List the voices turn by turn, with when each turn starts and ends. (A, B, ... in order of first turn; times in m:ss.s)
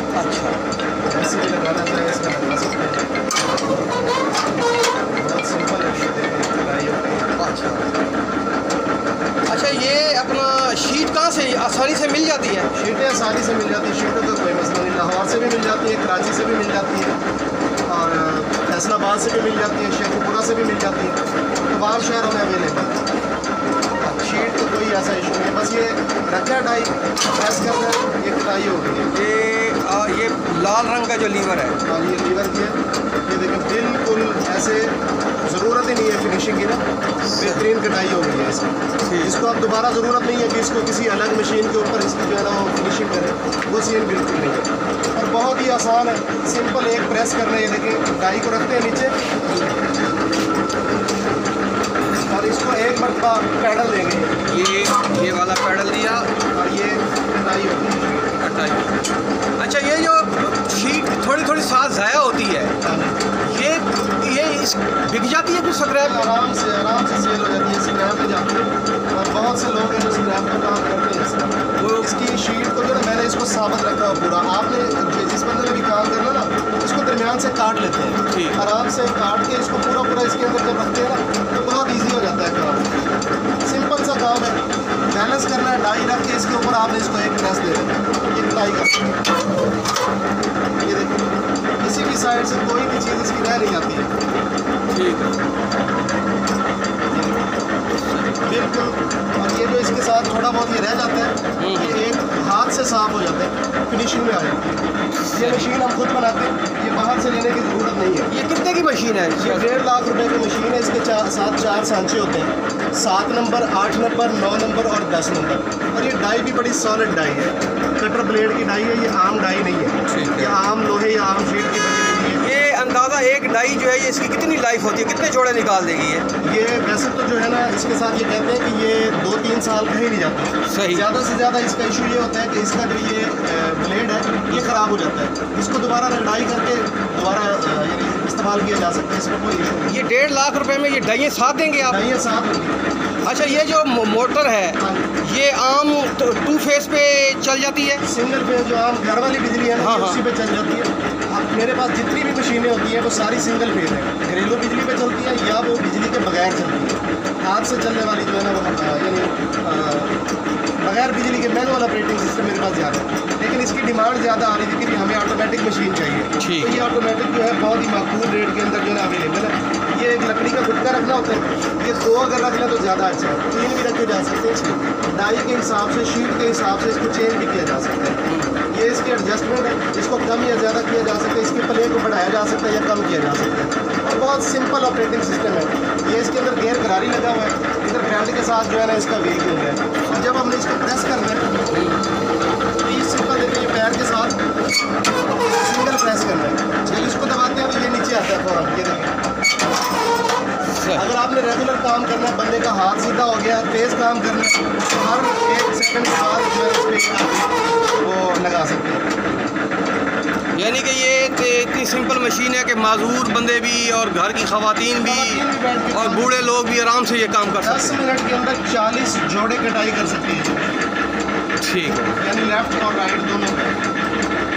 0:00.1-0:00.6 A
0:01.1-0:03.3 B
0:05.1-0:07.3 B
0:07.4-0:07.9 A
0:09.5-0:12.7 A
0:12.7-0:17.2 B
0:17.9-0:23.1 B
0:24.0-0:24.5 A
0:24.2-0:29.1 B
0:29.1-0:31.8 A
0:31.9-0:36.8 B
0:37.4-0:37.6 A
0:37.4-0:49.2 B
0:39.1-0:39.4 A
0:52.1-0:54.4 B
0:54.4-0:56.3 A
0:56.5-0:58.4 B
0:58.4-0:58.9 A
0:59.6-1:02.8 A
1:02.8-1:03.2 B
1:03.4-1:06.3 A
1:06.0-1:23.1 B
1:11.8-1:12.2 A
1:18.3-1:18.7 A
1:23.6-1:29.2 B
1:30.8-1:31.3 B
1:31.8-1:34.1 B
1:34.9-1:35.4 A
1:37.1-1:37.4 B
1:38.0-1:38.6 A
1:38.5-1:48.3 B
1:41.6-1:42.0 A
1:45.3-1:45.7 A
1:48.3-1:49.8 A
1:49.4-2:02.4 B
2:00.1-2:00.6 A
2:02.4-2:06.3 A
2:06.4-2:20.0 B
2:10.7-2:11.1 A
2:14.5-2:14.8 A
2:19.9-2:22.0 A
2:21.9-2:23.7 B
2:23.2-2:28.0 A
2:24.8-2:25.1 B
2:28.0-2:40.1 B
2:29.8-2:30.2 A
2:40.8-3:11.5 B
2:46.4-2:46.8 A
2:58.3-2:58.6 A
3:11.7-3:12.0 A
3:12.8-3:14.4 B
3:15.5-3:19.2 B
3:20.7-3:21.0 A
3:20.9-3:29.1 B
3:30.6-3:38.0 A
3:34.9-3:36.5 B
3:37.6-3:40.8 B
3:41.6-3:42.2 A
3:42.2-3:43.8 B